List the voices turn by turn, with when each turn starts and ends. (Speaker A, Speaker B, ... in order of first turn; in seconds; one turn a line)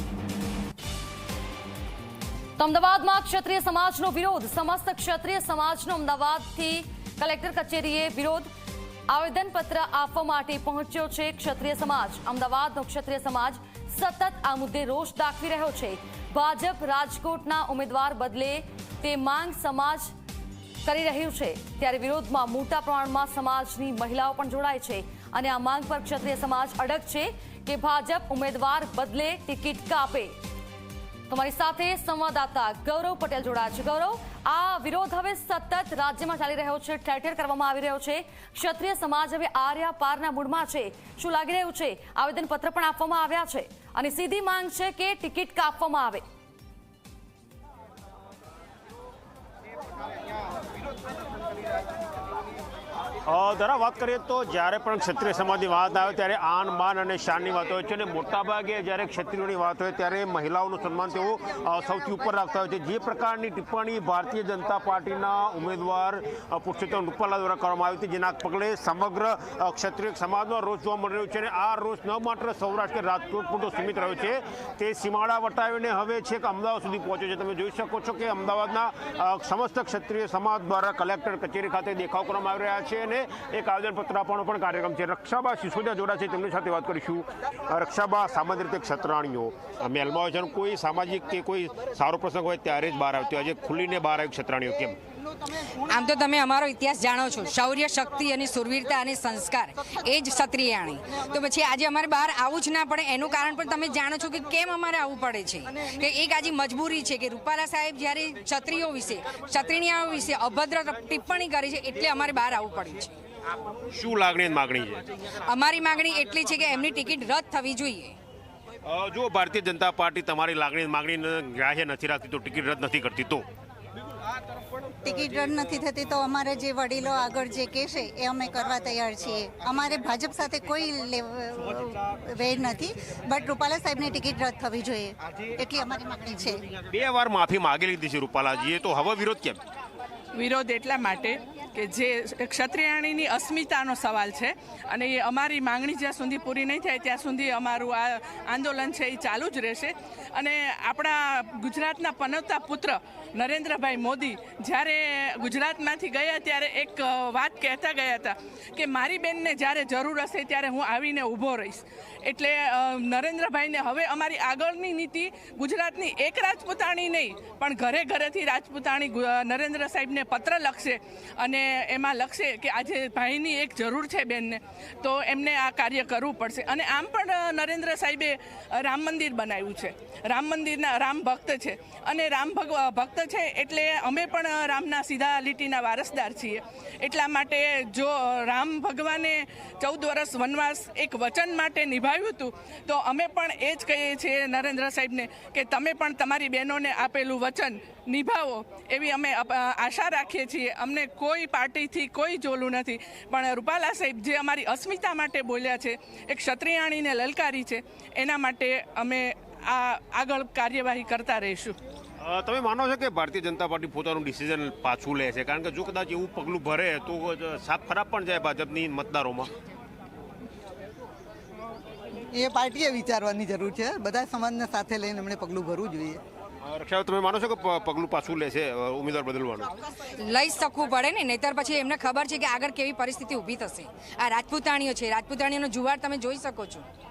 Speaker A: 2.6-8.5
Speaker A: 9.1-20.1
Speaker A: 20.8-30.4
Speaker A: 31.3-46.2
Speaker B: 53.2-95.0
Speaker C: 95.8-113.1
Speaker B: 113.9-115.1
Speaker C: 115.4-118.2
Speaker B: 118.8-123.4
Speaker D: 125.0-136.7
Speaker B: 136.9-139.6
Speaker E: 140.3-211.8
Speaker B: 212.2-219.5
Speaker F: 222.3-226.2
Speaker B: 226.6-229.8
Speaker C: 230.2-236.8